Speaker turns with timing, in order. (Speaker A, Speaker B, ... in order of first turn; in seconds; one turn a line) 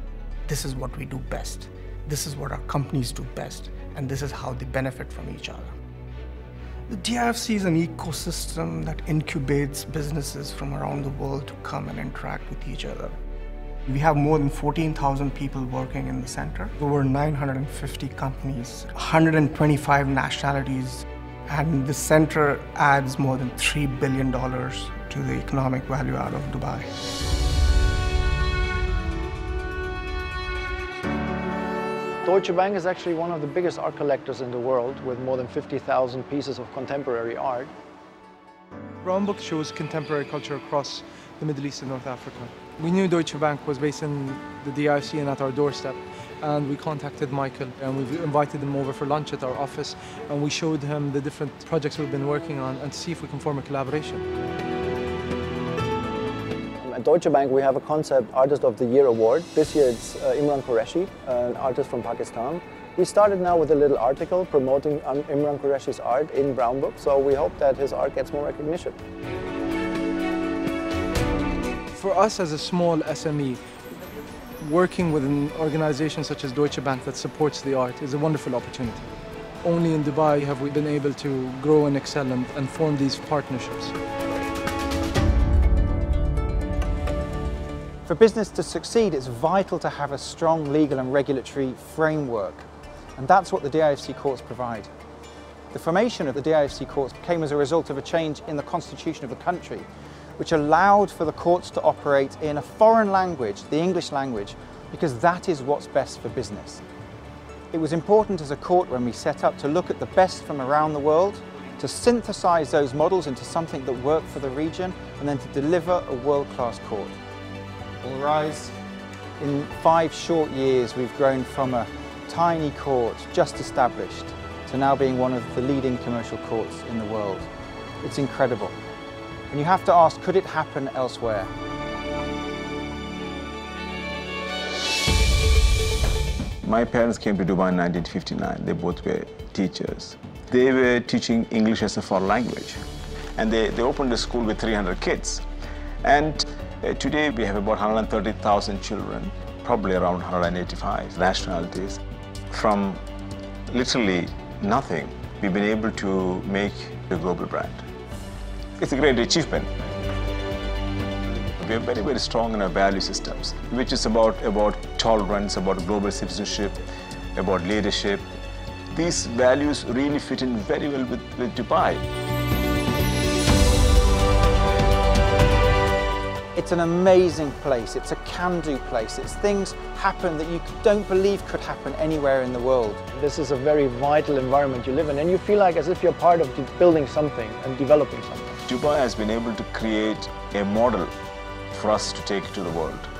Speaker A: 0.5-5.7
Speaker A: 6.9-13.1
Speaker A: 13.8-26.9
Speaker B: 32.2-37.7
Speaker C: 39.0-54.2
Speaker B: 56.8-69.0
Speaker C: 71.9-73.6
Speaker C: 74.6-79.1
Speaker C: 79.6-83.9
Speaker D: 88.0-92.7
Speaker D: 93.2-94.9
Speaker D: 95.7-99.8
Speaker D: 100.4-106.8
Speaker D: 107.7-117.2
Speaker D: 118.0-118.7
Speaker D: 119.4-127.5
Speaker D: 128.0-128.7
Speaker D: 129.5-131.5
Speaker E: 136.6-142.8
Speaker E: 143.3-145.4
Speaker E: 146.0-152.0
Speaker E: 152.5-153.0
Speaker E: 153.7-157.8
Speaker E: 158.8-159.7
Speaker E: 161.6-168.2
Speaker E: 168.9-172.0
Speaker D: 176.5-183.0
Speaker B: 183.1-188.6
Speaker E: 188.7-191.1
Speaker E: 191.7-193.1